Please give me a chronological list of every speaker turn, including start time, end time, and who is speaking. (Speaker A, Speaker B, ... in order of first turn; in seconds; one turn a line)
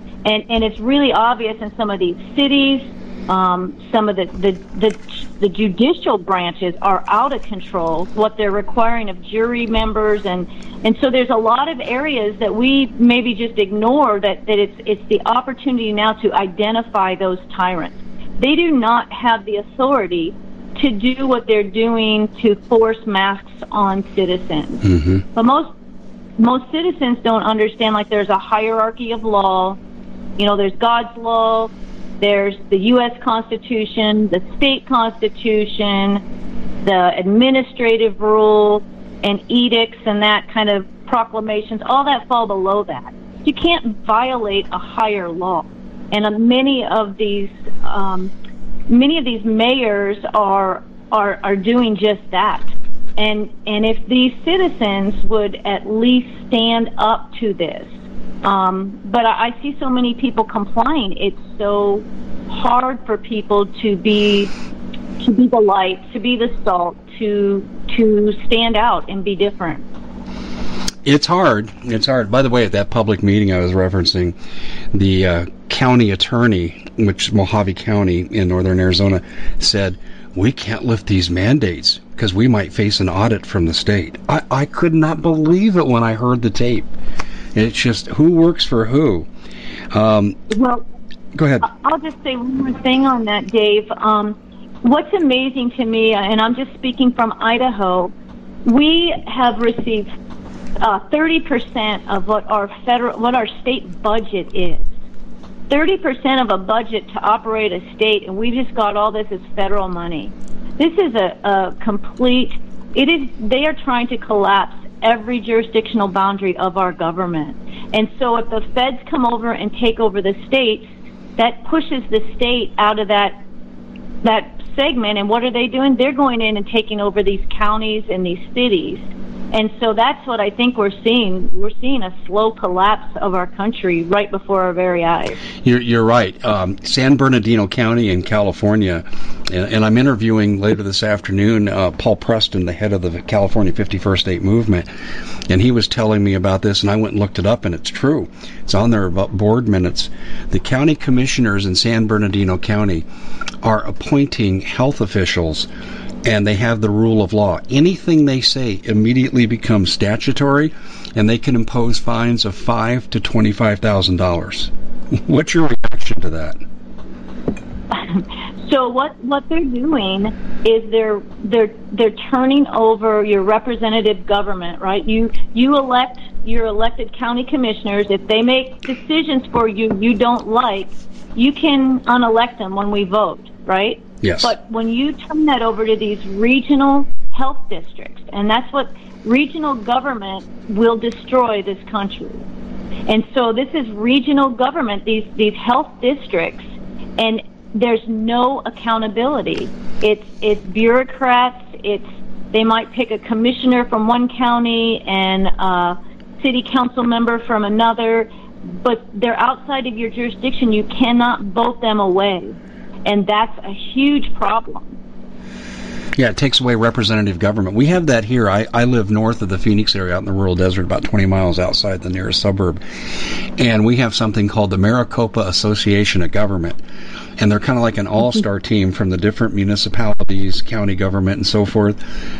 Speaker A: 0.2-25.7
Speaker B: 24.9-25.2
Speaker A: 26.4-29.8
Speaker A: 30.4-36.2
Speaker A: 36.8-48.3
Speaker A: 48.9-57.9
Speaker A: 58.4-64.5
Speaker A: 65.2-69.8
Speaker B: 71.0-74.3
Speaker B: 74.9-86.9
Speaker B: 87.5-89.3
Speaker B: 89.9-90.4
Speaker A: 90.5-90.8
Speaker B: 91.3-91.7
Speaker A: 91.6-98.1
Speaker A: 98.6-100.1
Speaker A: 100.8-104.9
Speaker A: 105.7-123.4
Speaker A: 124.2-135.4
Speaker B: 135.6-144.8
Speaker B: 145.5-153.0
Speaker B: 153.6-155.7
Speaker B: 156.2-164.7
Speaker B: 165.2-166.6
Speaker A: 167.9-192.4
Speaker B: 184.2-184.5
Speaker A: 193.1-215.0
Speaker B: 216.2-226.8
Speaker B: 227.4-232.0